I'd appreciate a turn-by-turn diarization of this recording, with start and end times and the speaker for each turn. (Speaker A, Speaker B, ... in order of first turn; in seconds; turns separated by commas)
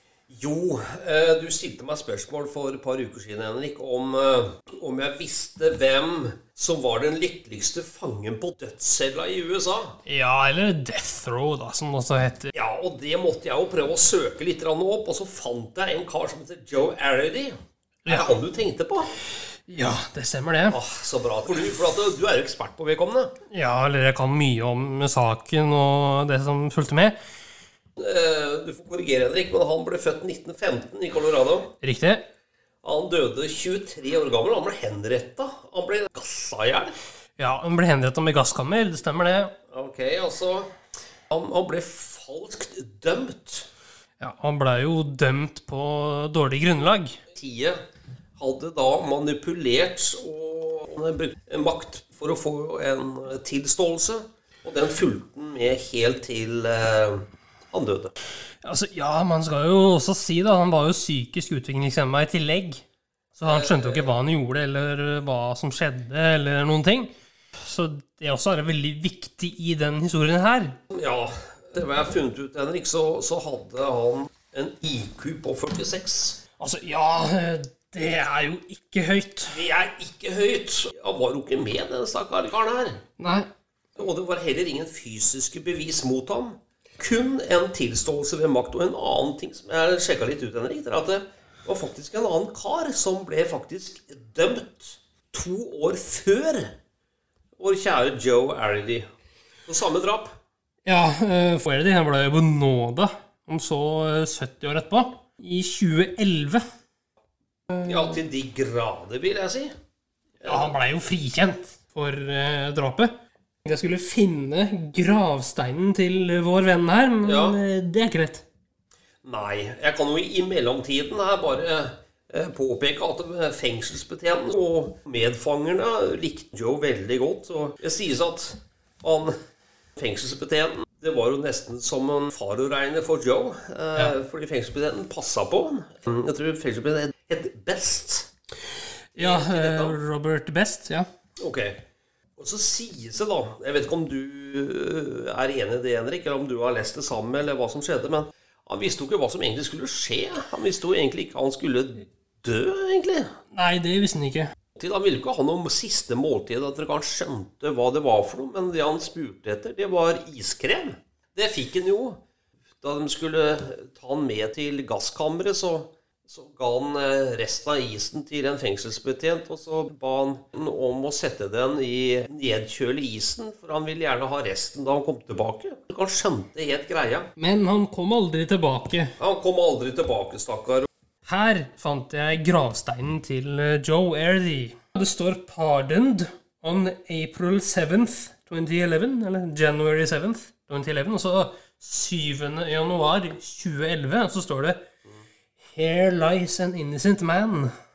Speaker A: 0.3-10.0, Speaker B: 10.1-12.5, Speaker A: 12.5-19.1, Speaker B: 18.0-18.3, Speaker B: 19.7-20.8, Speaker A: 20.7-23.3, Speaker B: 23.5-27.1, Speaker A: 28.0-31.7, Speaker B: 31.8-32.2, Speaker A: 32.8-36.9, Speaker B: 37.4-39.5, Speaker A: 39.7-40.7, Speaker A: 41.3-43.7, Speaker B: 44.2-47.2, Speaker A: 47.3-47.8, Speaker A: 48.4-58.1, Speaker B: 58.6-62.8, Speaker B: 63.4-70.8, Speaker A: 63.4-64.1, Speaker A: 70.9-76.4, Speaker B: 76.6-79.6, Speaker A: 79.5-83.0, Speaker B: 83.2-83.5, Speaker A: 84.0-96.8, Speaker A: 97.6-99.1, Speaker A: 99.7-100.3, Speaker B: 100.8-106.6, Speaker A: 107.8-109.7, Speaker A: 110.4-110.7, Speaker B: 110.4-113.1, Speaker B: 113.6-118.4, Speaker A: 117.2-117.6, Speaker A: 119.2-129.3, Speaker A: 130.0-138.3, Speaker B: 139.1-141.1, Speaker A: 139.2-140.0, Speaker A: 141.4-141.8, Speaker A: 142.4-153.3, Speaker B: 153.5-154.5, Speaker A: 154.8-162.2, Speaker A: 162.8-177.3, Speaker B: 177.4-179.2, Speaker A: 179.2-180.9, Speaker B: 181.2-194.8, Speaker B: 195.7-197.7